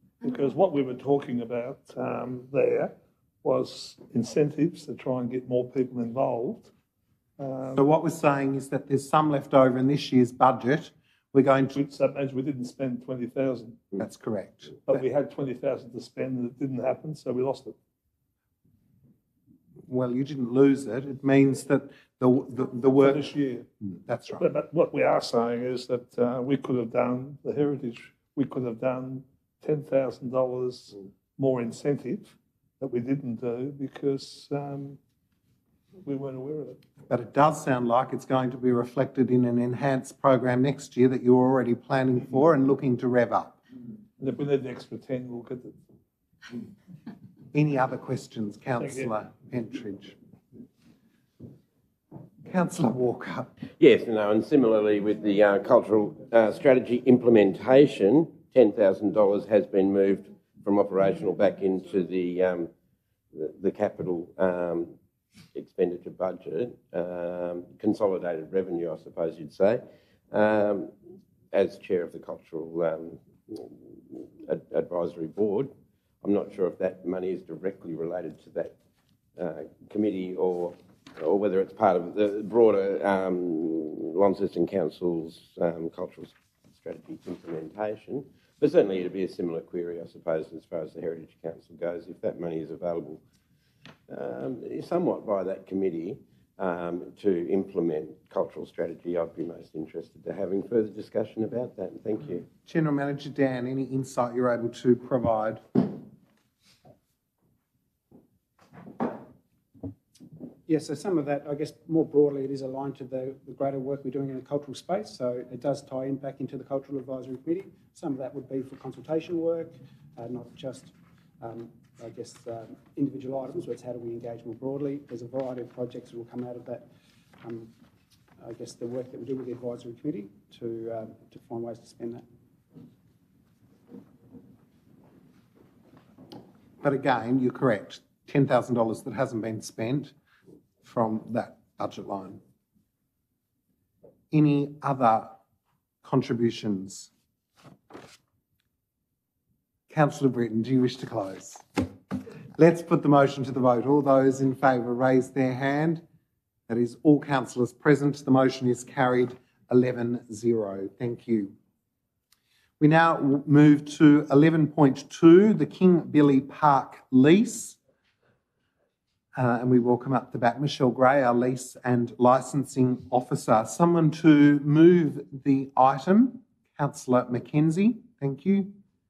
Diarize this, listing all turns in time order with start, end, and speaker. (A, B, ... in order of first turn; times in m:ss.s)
0:00.2-0:06.7 A
0:07.4-0:07.9 A
0:07.7-0:11.8 B
0:11.7-0:13.9 A
0:14.0-0:15.0 B
0:14.9-0:17.8 A
0:19.9-0:23.3 B
0:22.9-0:23.7 A
0:23.8-0:24.5 B
0:24.4-0:35.0 A
0:36.0-0:36.8 A
0:37.1-0:43.6 B
0:44.2-0:45.8 A
0:47.5-0:50.2 B
0:48.8-0:49.1 A
0:52.4-0:53.5 B
0:53.8-1:02.7 C
1:03.3-1:04.9 C
1:05.6-1:10.9 C
1:11.5-1:18.8 C
1:19.4-1:33.2 C
1:34.1-1:42.5 C
1:42.7-1:45.8 B
1:50.7-2:06.9 D
2:07.4-2:07.7 D
2:08.4-2:12.2 D
2:16.8-2:20.1 B
2:20.8-2:22.4 B
2:24.3-2:25.4 B
2:26.0-2:27.1 B
2:29.9-2:31.6 B
2:32.6-2:36.0 B
2:36.7-2:41.5 B
2:42.8-2:47.8 B
2:49.4-2:58.7 B